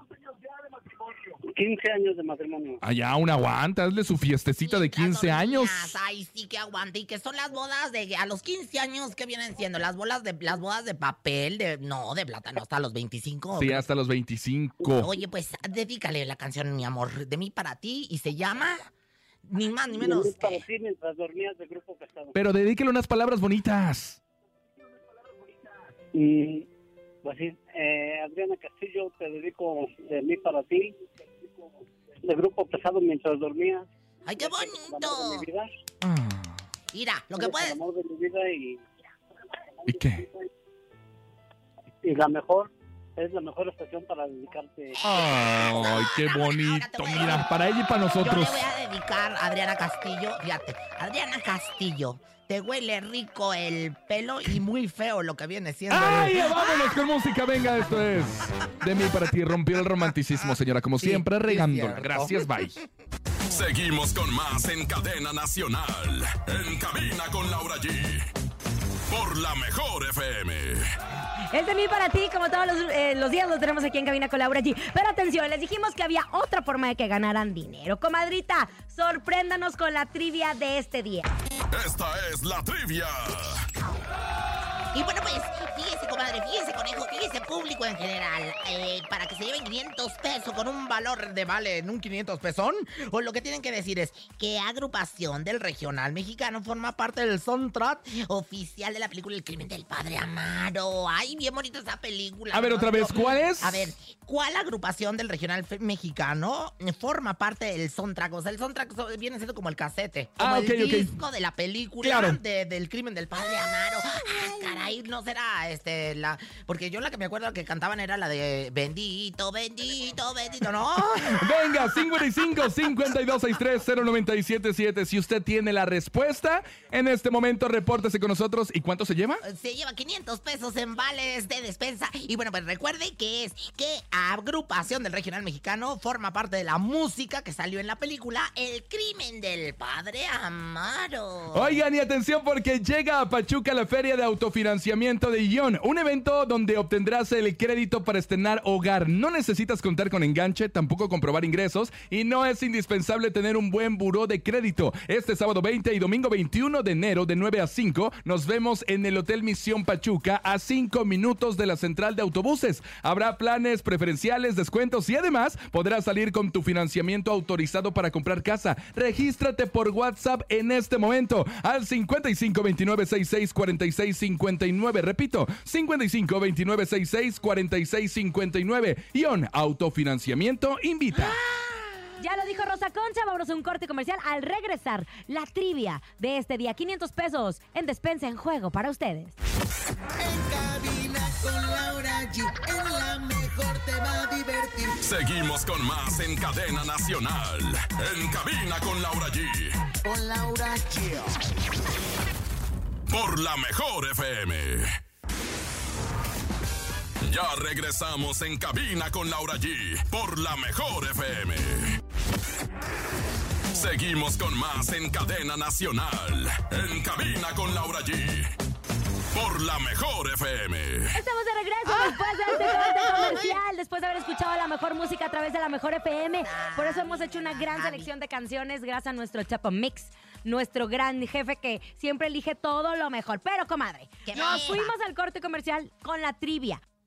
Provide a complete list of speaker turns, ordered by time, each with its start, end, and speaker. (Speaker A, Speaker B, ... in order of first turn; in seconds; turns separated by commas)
Speaker A: 0.6-2.8, Speaker B: 2.8-6.0, Speaker C: 4.6-13.8, Speaker B: 13.6-15.1, Speaker C: 15.0-18.9, Speaker C: 19.5-20.6, Speaker A: 19.9-22.4, Speaker B: 22.4-24.2, Speaker A: 26.1-26.7, Speaker A: 27.2-30.9, Speaker A: 32.2-33.9, Speaker C: 34.2-35.5, Speaker A: 34.4-35.7, Speaker B: 36.0-36.6, Speaker C: 36.9-37.8, Speaker A: 37.3-38.9, Speaker B: 39.9-40.3, Speaker A: 39.9-40.5, Speaker A: 42.0-45.0, Speaker C: 45.0-47.5, Speaker B: 45.0-48.7, Speaker C: 48.2-57.0, Speaker B: 55.9-62.8, Speaker C: 61.0-62.8, Speaker D: 63.5-68.3, Speaker D: 69.1-70.9, Speaker E: 71.5-81.3, Speaker D: 81.7-83.7, Speaker C: 84.9-122.2, Speaker B: 102.5-103.9, Speaker B: 110.4-111.1, Speaker B: 112.0-112.4, Speaker B: 121.3-129.4, Speaker C: 129.4-141.8, Speaker B: 141.5-181.4, Speaker C: 181.2-182.0, Speaker E: 182.2-189.4, Speaker F: 193.1-194.8, Speaker D: 195.0-199.8, Speaker F: 200.1-200.9, Speaker D: 203.1-205.0, Speaker D: 207.2-212.0, Speaker D: 213.7-218.6, Speaker D: 219.3-221.2, Speaker E: 221.1-236.8, Speaker C: 221.9-223.6, Speaker C: 226.4-228.1, Speaker C: 234.3-234.9